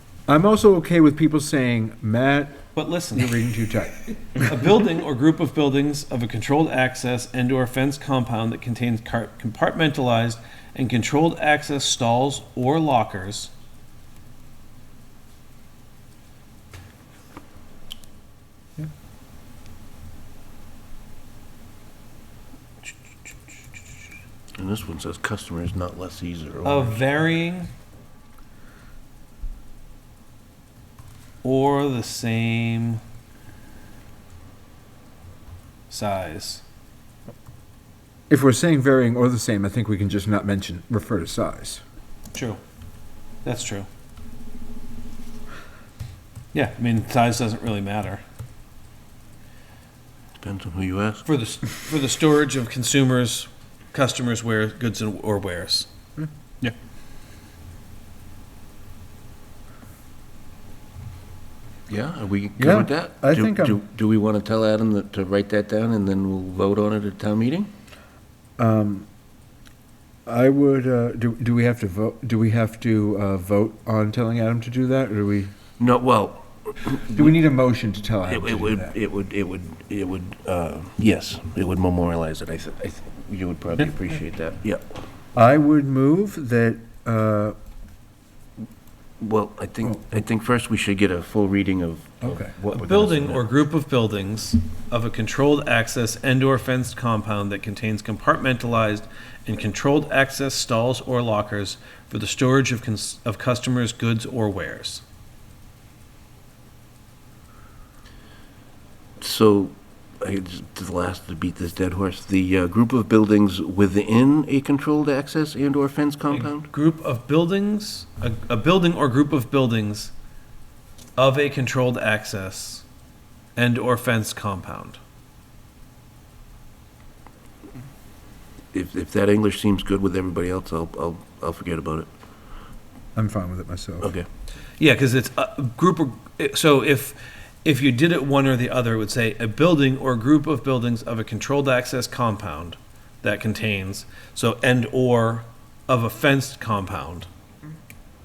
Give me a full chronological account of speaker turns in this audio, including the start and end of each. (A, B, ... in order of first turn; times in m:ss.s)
0:00.3-0:04.5 A
0:02.8-0:03.5 B
0:04.4-0:13.5 B
0:24.6-0:27.0 C
0:26.6-0:27.7 B
0:31.4-0:33.0 B
0:35.9-0:36.6 B
0:38.3-0:41.8 A
0:42.3-0:42.6 B
0:43.4-0:43.9 B
0:46.5-0:48.2 B
0:50.4-0:51.2 C
0:51.2-0:55.9 B
1:01.9-1:07.7 C
1:02.6-1:03.8 A
1:08.6-1:09.1 A
1:10.2-1:15.5 A
1:15.8-1:17.3 C
1:17.1-1:18.9 A
1:18.2-1:24.8 C
1:25.3-1:27.5 A
1:29.2-1:33.5 C
1:32.7-1:45.0 B
1:49.2-1:56.7 C
1:56.3-2:00.1 B
2:01.2-2:02.8 B
2:03.6-2:05.0 B
2:08.7-2:12.1 C
2:13.2-2:14.1 A
2:14.0-2:14.3 C
2:14.8-2:27.3 B